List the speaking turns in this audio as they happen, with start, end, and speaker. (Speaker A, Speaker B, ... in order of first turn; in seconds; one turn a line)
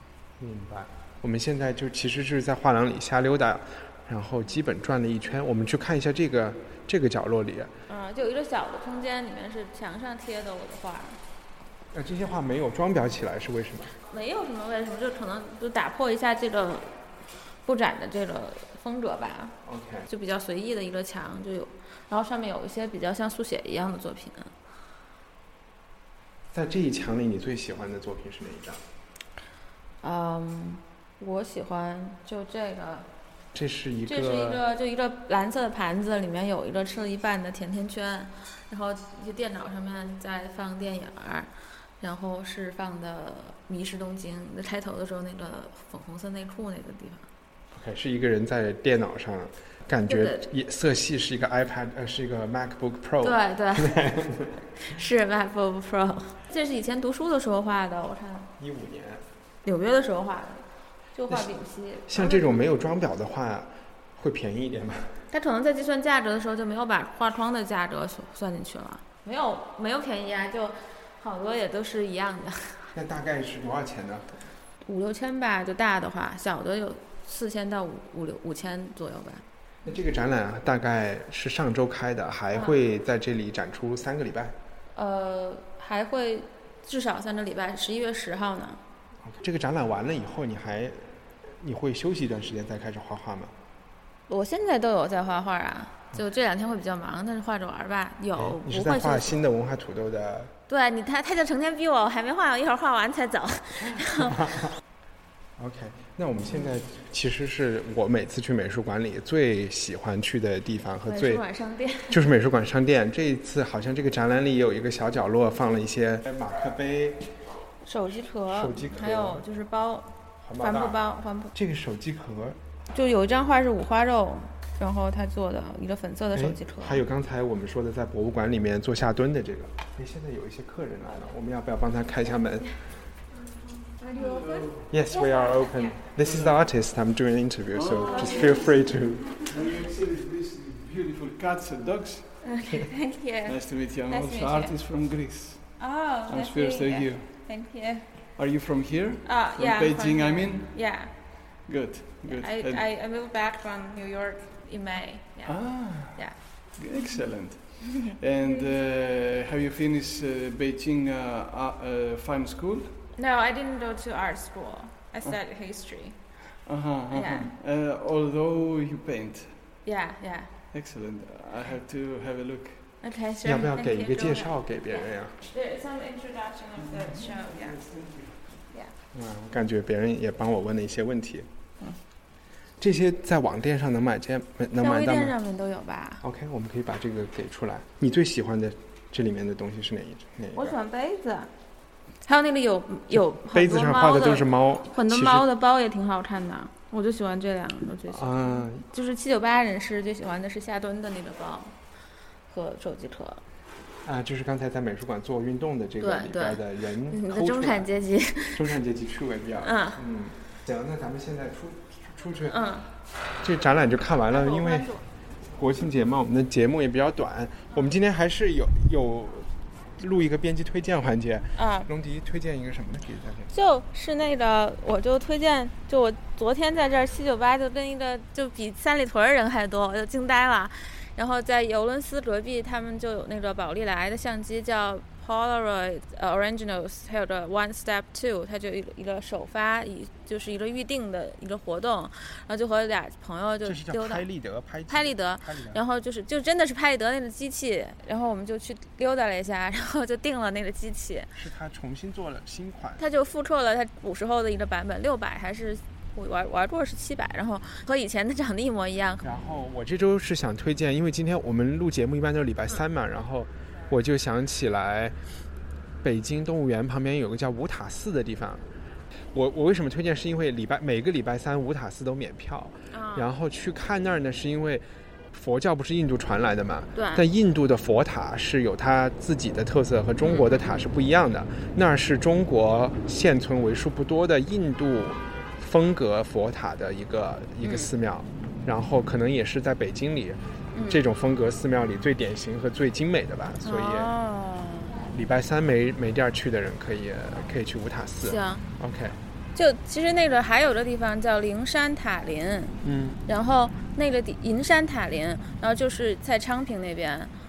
Speaker A: 0.4-7.7
Speaker B: 7.9-11.2
Speaker A: 11.9-13.9
Speaker B: 14.1-16.9
Speaker B: 17.6-19.6
Speaker A: 19.6-20.1
Speaker B: 20.1-24.5
Speaker A: 26.5-28.8
Speaker B: 30.0-33.1
Speaker A: 33.5-34.6
Speaker B: 34.1-41.5
Speaker B: 42.0-47.2
Speaker A: 47.7-54.6
Speaker B: 50.1-50.5
Speaker B: 53.2-54.0
Speaker B: 54.8-58.5
Speaker A: 58.6-59.2
Speaker B: 59.6-60.6
Speaker B: 61.1-62.6
Speaker A: 62.1-65.2
Speaker B: 65.3-72.9
Speaker A: 72.9-74.4
Speaker B: 74.8-79.4
Speaker A: 79.8-84.6
Speaker B: 85.0-88.8
Speaker A: 89.2-93.5
Speaker B: 94.3-99.4
Speaker A: 98.3-100.5
Speaker B: 100.7-104.5
Speaker A: 103.9-104.7
Speaker A: 105.6-111.4
Speaker B: 111.1-112.2
Speaker A: 112.1-117.3
Speaker B: 117.8-121.5
Speaker A: 118.5-119.5
Speaker A: 120.4-122.6
Speaker B: 122.9-127.0
Speaker A: 126.3-132.7
Speaker B: 134.0-134.7
Speaker C: 134.1-134.9
Speaker A: 134.9-139.4
Speaker C: 136.2-136.6
Speaker C: 137.7-138.6
Speaker B: 138.0-138.7
Speaker C: 139.4-142.4
Speaker B: 142.4-144.8
Speaker C: 143.5-147.3
Speaker B: 145.8-148.1
Speaker C: 148.4-152.8
Speaker B: 149.2-151.1
Speaker B: 152.2-156.4
Speaker C: 155.4-162.9
Speaker B: 157.9-158.7
Speaker B: 163.2-166.2
Speaker C: 166.7-169.7
Speaker B: 167.1-167.5
Speaker B: 169.8-170.5
Speaker C: 170.7-172.8
Speaker B: 173.0-177.8
Speaker A: 173.4-175.4
Speaker C: 176.8-178.4
Speaker A: 179.1-181.5
Speaker A: 182.8-185.4
Speaker B: 184.8-186.2
Speaker A: 186.2-190.8
Speaker B: 190.5-191.5
Speaker B: 192.2-201.8
Speaker A: 193.1-195.5
Speaker A: 198.1-198.9
Speaker B: 202.5-203.4
Speaker A: 204.0-207.9
Speaker B: 206.0-208.8
Speaker A: 208.5-212.6
Speaker B: 209.6-210.0
Speaker B: 212.5-212.9
Speaker A: 213.4-214.9
Speaker B: 214.3-215.0
Speaker A: 215.5-223.5
Speaker B: 221.6-221.9
Speaker B: 223.5-244.2
Speaker A: 243.7-245.8
Speaker B: 244.9-251.3
Speaker A: 251.3-253.0
Speaker B: 253.0-259.3
Speaker A: 259.2-265.2
Speaker A: 266.0-268.7
Speaker A: 269.3-294.1
Speaker B: 272.9-273.3
Speaker B: 276.9-277.2
Speaker B: 280.2-280.5
Speaker B: 287.6-287.9
Speaker B: 290.7-291.0
Speaker B: 293.6-295.0
Speaker A: 295.1-299.2
Speaker B: 298.2-298.6
Speaker B: 299.6-307.3
Speaker A: 302.8-303.2